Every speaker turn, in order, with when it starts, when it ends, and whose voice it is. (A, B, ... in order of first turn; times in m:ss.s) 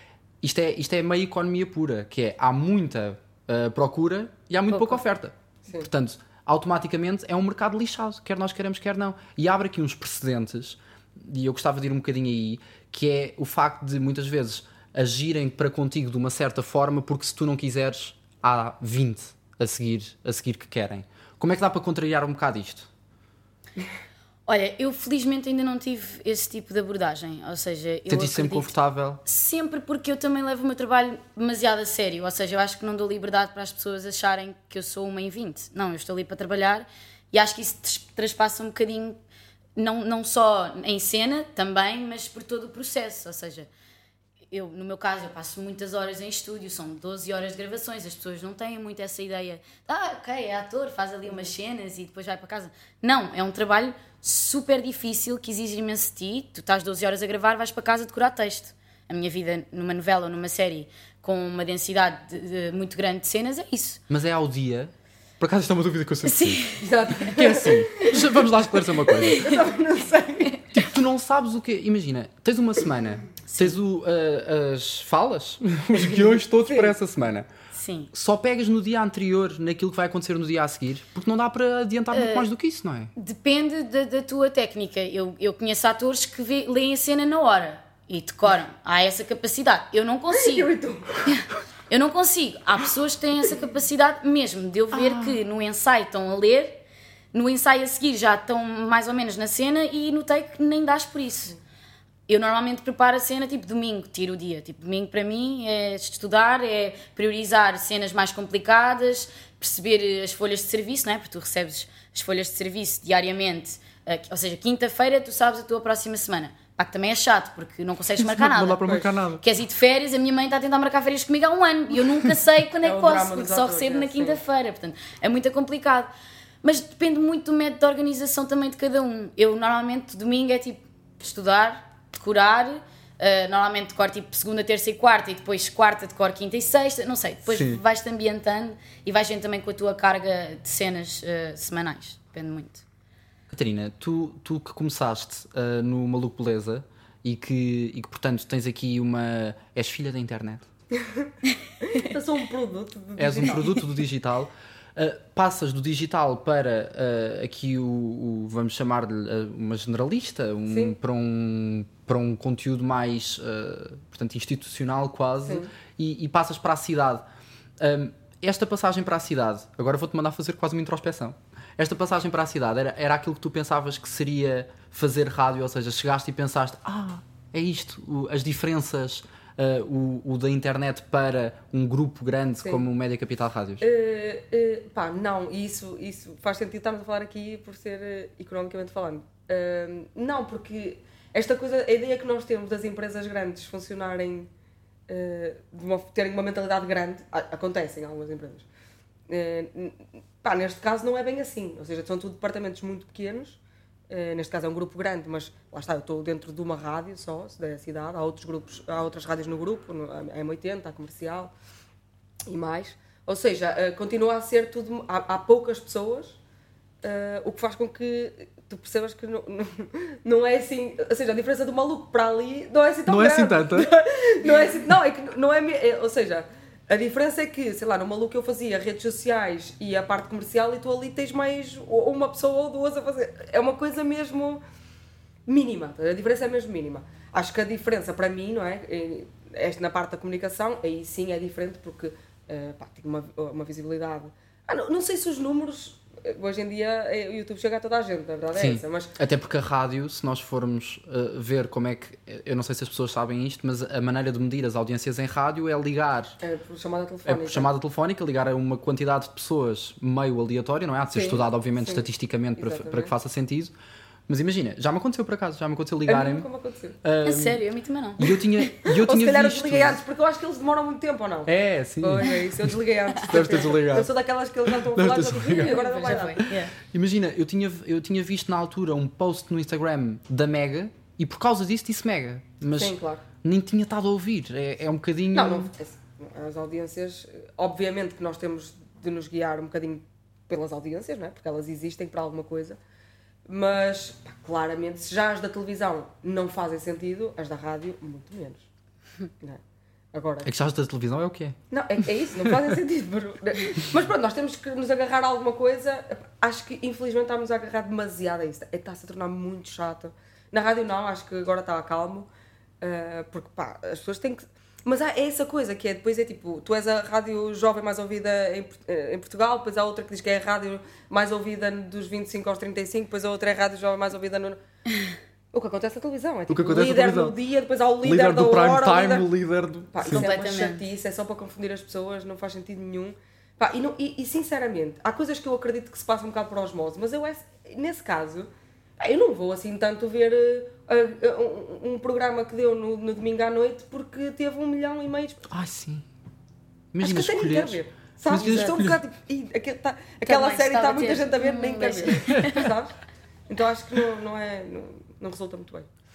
0:00.4-0:22.9 A
0:24.5-0:39.2 B
0:28.1-0:29.2 A
0:39.8-0:43.7 B
0:44.5-1:04.0 B
0:51.3-0:51.5 C
1:04.1-1:06.6 A
1:06.2-1:07.4 B
1:06.8-1:08.0 C
1:07.3-1:09.5 A
1:09.2-1:09.6 B
1:09.2-1:10.5 C
1:10.7-1:17.5 A
1:13.5-1:13.8 B
1:16.3-1:16.9 C
1:17.7-1:18.1 B
1:18.1-1:23.1 A
1:22.1-1:22.5 B
1:23.2-1:30.7 B
1:30.3-1:31.4 C
1:31.3-1:36.8 B
1:34.9-1:35.4 A
1:37.3-1:41.6 B
1:42.3-2:06.1 B
1:58.2-1:59.4 A
2:02.8-2:04.4 C
2:06.6-2:22.8 B
2:17.5-2:17.8 A
2:23.5-2:30.7 A
2:30.9-2:31.3 C
2:31.8-2:33.8 C
2:33.2-2:47.3 A
2:40.7-2:41.0 C
2:45.5-2:45.7 C
2:47.8-3:03.8 A
3:03.8-3:14.5 C
3:15.1-3:18.7 C
3:19.3-3:31.5 C
3:32.5-3:36.4 C
3:37.0-3:54.6 C
3:43.1-3:43.9 A
3:55.5-4:09.1 C
4:08.6-4:16.4 A
4:16.4-4:17.7 C
4:17.2-4:23.7 A
4:21.2-4:23.1 C
4:24.3-4:26.5 A
4:26.1-4:27.0 C
4:27.0-4:27.6 A
4:27.2-4:28.4 B
4:28.2-4:30.0 A
4:28.8-4:36.4 C
4:31.4-4:32.4 A
4:33.2-4:34.1 A
4:34.7-4:35.8 A
4:35.5-4:36.8 B
4:36.4-4:45.7 A
4:42.8-4:43.2 C
4:45.3-4:52.8 C
4:53.4-4:58.7 C
5:00.1-5:00.5 C
5:00.4-5:01.6 A
5:01.7-5:12.3 C
5:12.8-5:24.6 C
5:25.5-5:29.3 C
5:26.5-5:27.4 A
5:28.0-5:30.3 A
5:29.9-5:45.5 C
5:30.1-5:30.8 B
5:45.5-5:46.1 A
5:46.9-5:49.0 A
5:47.0-5:53.0 C
5:50.3-5:52.7 B
5:53.5-5:55.9 C